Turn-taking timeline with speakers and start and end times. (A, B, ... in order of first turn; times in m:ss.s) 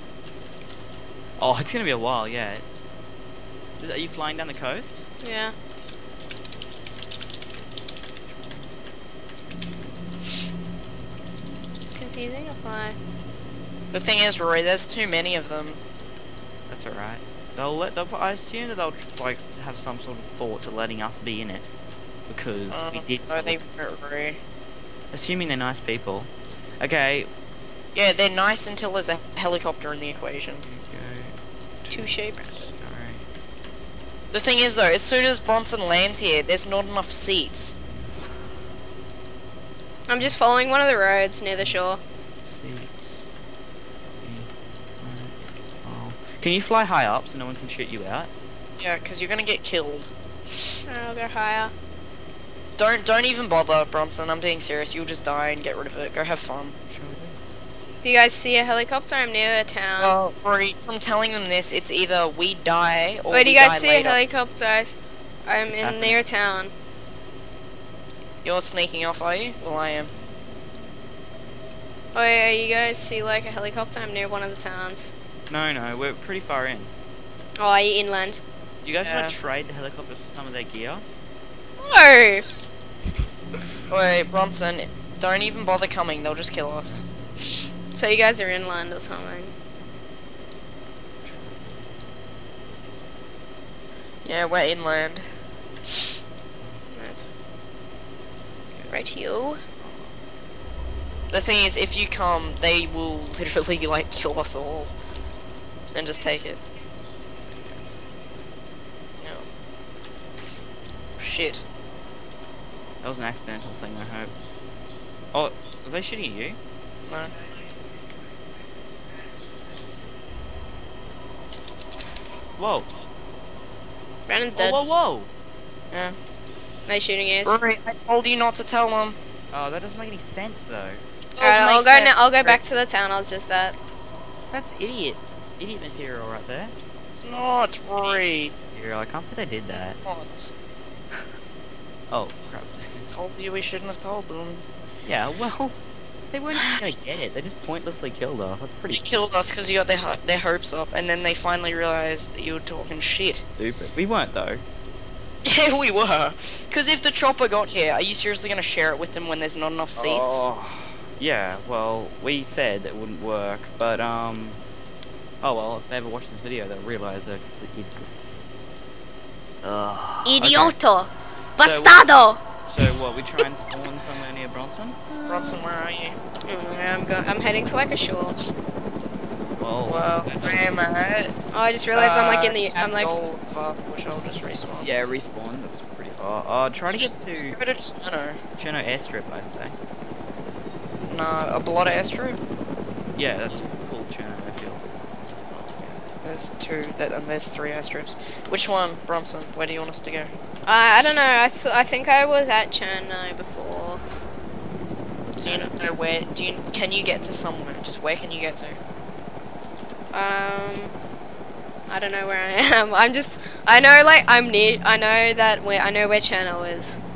0:01.4-0:02.6 A
0:03.8-0:05.0 A
0:05.2-0:05.5 B
0:08.3-0:08.7 A
0:09.4-0:10.0 A
0:11.9-0:13.0 B
0:13.9-0:15.8 C
0:16.7-0:21.7 A
0:22.3-0:23.6 A
0:22.7-0:24.4 C
0:25.1-0:27.3 A
0:27.9-0:30.6 C
0:30.6-0:33.2 A
0:31.9-0:32.7 B
0:34.3-0:37.7 C
0:37.9-0:38.6 A
0:40.1-0:42.0 B
0:42.5-0:43.2 A
0:44.2-0:44.5 A
0:45.0-0:48.3 A
0:48.8-0:50.1 C
0:50.9-0:51.7 B
0:52.8-0:56.8 C
0:56.9-0:57.4 A
0:58.0-1:00.2 B
1:00.0-1:04.2 C
1:03.3-1:06.7 B
1:05.7-1:06.2 A
1:08.4-1:10.1 C
1:12.2-1:15.1 B
1:15.5-1:16.9 A
1:17.6-1:18.4 B
1:18.8-1:21.0 A
1:19.0-1:19.4 C
1:21.8-1:22.5 B
1:23.9-1:27.0 C
1:27.9-1:29.5 B
1:31.2-1:31.6 A
1:34.2-1:35.3 C
1:36.9-1:37.3 B
1:38.7-1:39.0 A
1:38.9-1:39.6 B
1:39.8-1:40.2 A
1:41.3-1:44.9 C
1:45.9-1:46.6 C
1:47.5-1:47.9 A
1:49.2-1:49.5 C
1:51.2-1:51.6 C
1:53.0-1:54.3 A
1:55.3-1:56.6 A
1:57.1-1:57.3 C
2:02.6-2:02.9 A
2:04.3-2:04.8 B
2:04.6-2:05.3 A
2:05.9-2:06.2 C
2:06.9-2:07.6 B
2:07.4-2:09.2 C
2:09.5-2:11.0 A
2:11.4-2:12.6 C
2:11.4-2:13.8 B
2:14.5-2:16.7 A
2:17.2-2:18.5 C
2:18.0-2:20.0 A
2:20.0-2:20.5 C
2:22.1-2:23.1 A
2:23.1-2:24.6 C
2:25.0-2:25.8 A
2:26.3-2:29.0 A
2:28.9-2:33.4 C
2:33.5-2:34.6 A
2:35.4-2:40.4 C
2:40.0-2:44.6 A
2:45.4-2:48.4 A
2:49.6-2:50.8 A
2:50.2-2:52.4 B
2:51.6-2:52.1 A
2:52.7-2:55.0 A
2:55.1-2:55.6 B
2:55.3-2:56.2 C
2:56.5-2:58.4 B
2:59.6-3:00.7 A
2:59.9-3:01.4 C
3:01.5-3:03.1 B
3:01.9-3:04.9 C
3:04.8-3:07.6 A
3:06.9-3:08.4 C
3:08.6-3:09.8 A
3:11.0-3:12.4 C
3:13.2-3:15.0 A
3:15.8-3:20.3 C
3:20.6-3:24.0 B
3:25.4-3:25.7 B
3:25.4-3:28.8 C
3:30.1-3:31.0 B
3:31.9-3:37.0 B